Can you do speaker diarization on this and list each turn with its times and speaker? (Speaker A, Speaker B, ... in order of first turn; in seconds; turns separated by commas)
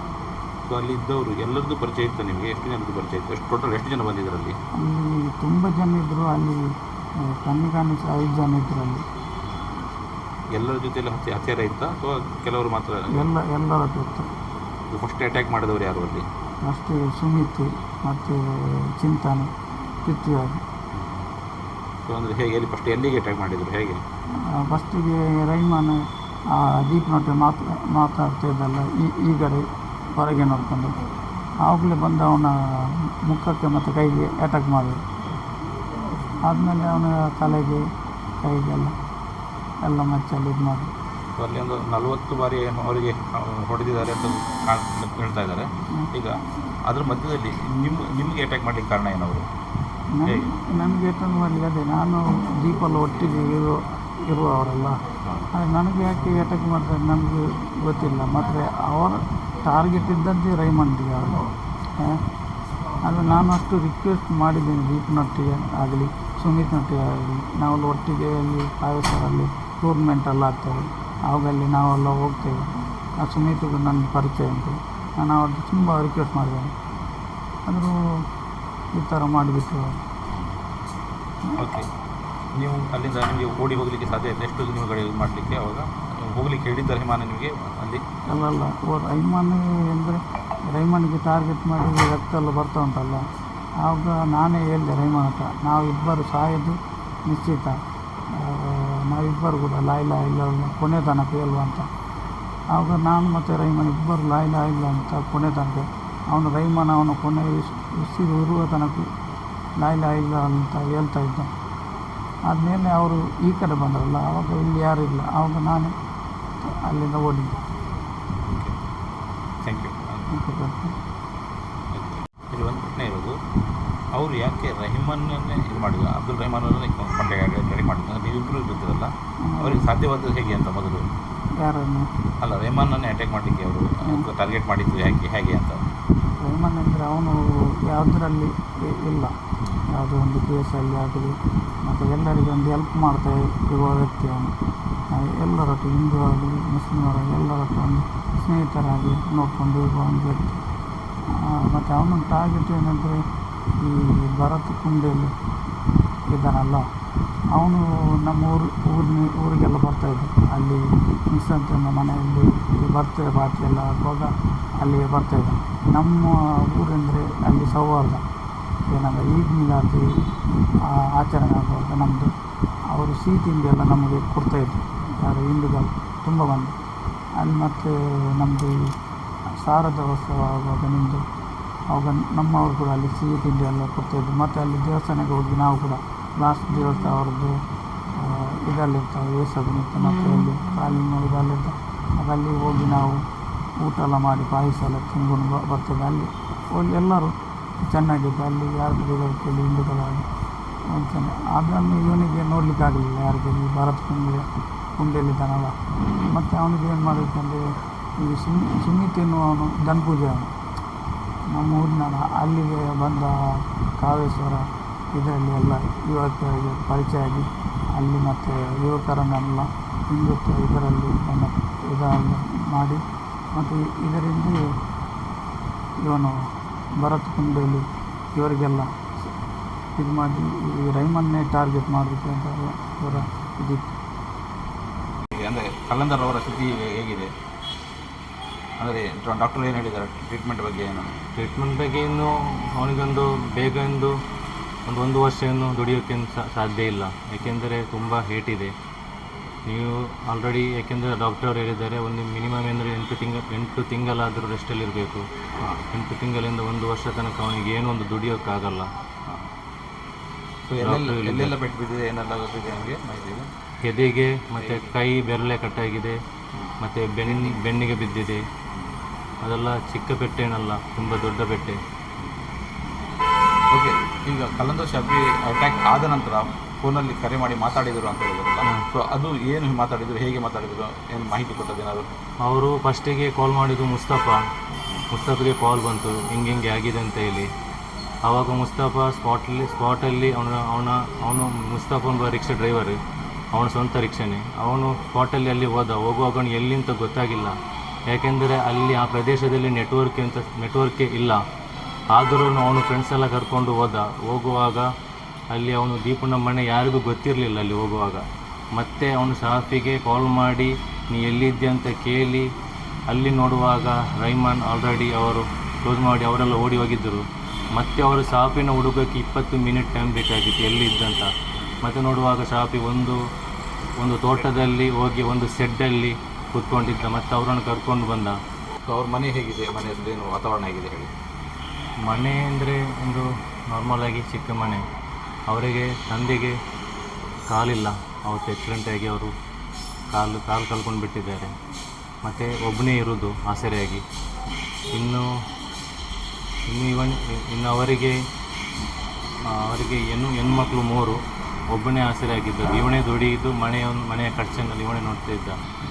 Speaker A: 0.7-4.6, Speaker B: 4.8-9.1, Speaker A: 10.5-13.1, Speaker B: 13.1-14.3, Speaker A: 14.9-16.2, Speaker B: 16.6-19.5, Speaker B: 20.0-20.6, Speaker A: 20.9-21.3, Speaker A: 22.1-24.0, Speaker B: 24.6-26.0, Speaker B: 26.5-31.0, Speaker B: 31.6-35.0, Speaker B: 36.4-37.8, Speaker B: 38.4-38.9, Speaker B: 39.8-40.9, Speaker A: 41.4-49.5, Speaker B: 50.2-55.0, Speaker B: 55.5-61.5, Speaker B: 63.0-76.8, Speaker B: 77.7-78.0, Speaker B: 79.0-80.0, Speaker A: 81.6-81.9, Speaker A: 82.5-88.0, Speaker B: 88.3-93.2, Speaker B: 93.8-96.8, Speaker B: 97.3-97.8, Speaker B: 98.3-101.9, Speaker B: 102.7-109.1, Speaker B: 109.8-111.5, Speaker B: 112.5-115.9, Speaker B: 116.6-117.6, Speaker A: 118.5-118.8, Speaker A: 119.6-120.2, Speaker B: 120.3-121.0, Speaker A: 121.9-123.4, Speaker A: 124.1-131.1, Speaker B: 129.5-129.9, Speaker B: 131.6-132.1, Speaker A: 132.4-135.9, Speaker B: 134.0-134.3, Speaker B: 136.4-139.4, Speaker B: 139.9-144.5, Speaker B: 145.1-150.6, Speaker B: 151.3-153.2, Speaker B: 153.8-155.3, Speaker B: 156.3-156.9, Speaker B: 157.5-168.2, Speaker B: 168.9-170.1, Speaker B: 170.8-172.3, Speaker B: 172.9-176.7, Speaker B: 177.4-178.8, Speaker B: 179.5-181.2, Speaker B: 181.9-187.6, Speaker B: 188.2-193.2, Speaker B: 193.8-200.3, Speaker B: 200.9-207.7, Speaker B: 208.2-210.5, Speaker B: 211.5-224.7, Speaker B: 226.0-226.4, Speaker B: 227.0-229.3, Speaker B: 230.0-233.9, Speaker A: 235.3-237.3, Speaker A: 238.8-241.1, Speaker C: 241.4-244.1, Speaker C: 244.9-248.7, Speaker C: 249.7-255.2, Speaker C: 255.9-258.9, Speaker A: 260.6-263.5, Speaker C: 260.8-261.6, Speaker C: 263.9-266.2, Speaker A: 264.6-264.9, Speaker C: 266.8-268.4, Speaker A: 267.2-267.6, Speaker C: 269.4-271.8, Speaker A: 273.7-282.1, Speaker C: 282.4-284.4, Speaker C: 285.1-287.5, Speaker C: 288.3-293.0, Speaker C: 293.6-297.6, Speaker C: 298.1-301.4, Speaker C: 302.1-304.9, Speaker C: 305.5-308.2, Speaker C: 308.8-312.5, Speaker C: 313.1-317.2, Speaker C: 317.8-321.3, Speaker C: 321.8-323.2, Speaker C: 324.0-328.4, Speaker A: 328.9-331.1, Speaker C: 332.1-334.9, Speaker C: 335.5-336.6, Speaker C: 337.5-339.3, Speaker C: 340.1-341.5, Speaker C: 342.2-344.0, Speaker C: 344.9-345.2, Speaker C: 346.7-348.2, Speaker C: 349.5-351.2, Speaker C: 351.7-355.6